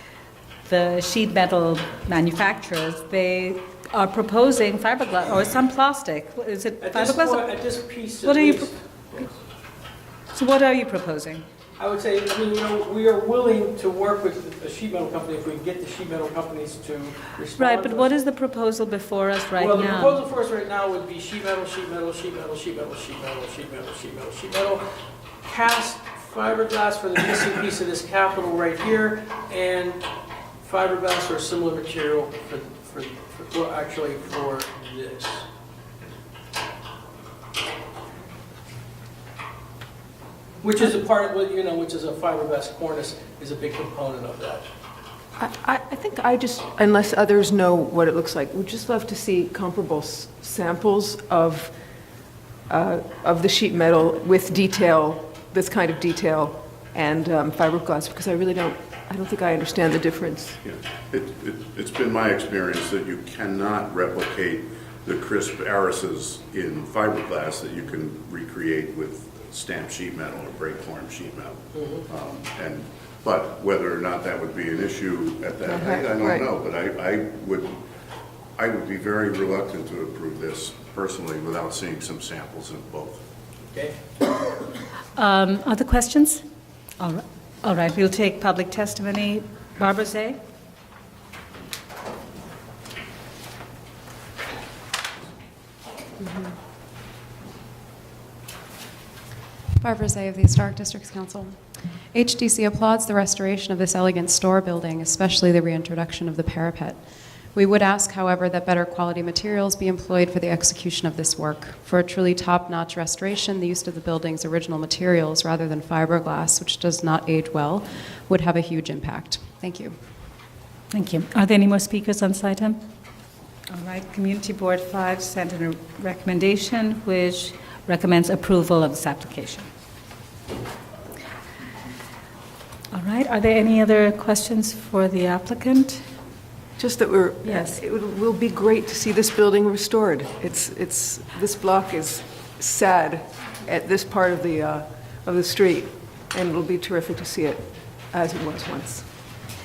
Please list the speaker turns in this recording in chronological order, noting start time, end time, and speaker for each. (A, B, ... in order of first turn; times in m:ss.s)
0:00.7-0:07.5 A
0:06.8-0:09.3 B
0:08.2-0:08.7 A
0:10.3-0:11.4 A
0:11.8-0:18.1 B
0:17.6-0:20.2 A
0:19.6-0:24.8 B
0:25.4-0:30.0 B
0:30.6-0:35.4 B
0:40.6-0:44.7 B
0:45.4-0:51.7 C
0:52.7-1:00.6 C
1:00.6-1:17.7 D
1:15.6-1:16.5 C
1:18.6-1:23.2 D
1:25.2-1:26.4 A
1:27.0-1:30.4 A
1:39.8-1:41.6 E
1:42.1-1:47.0 E
1:47.5-2:00.0 E
2:00.9-2:02.8 A
2:03.7-2:09.7 A
2:12.9-2:16.0 A
2:16.8-2:29.1 C
2:17.4-2:17.8 A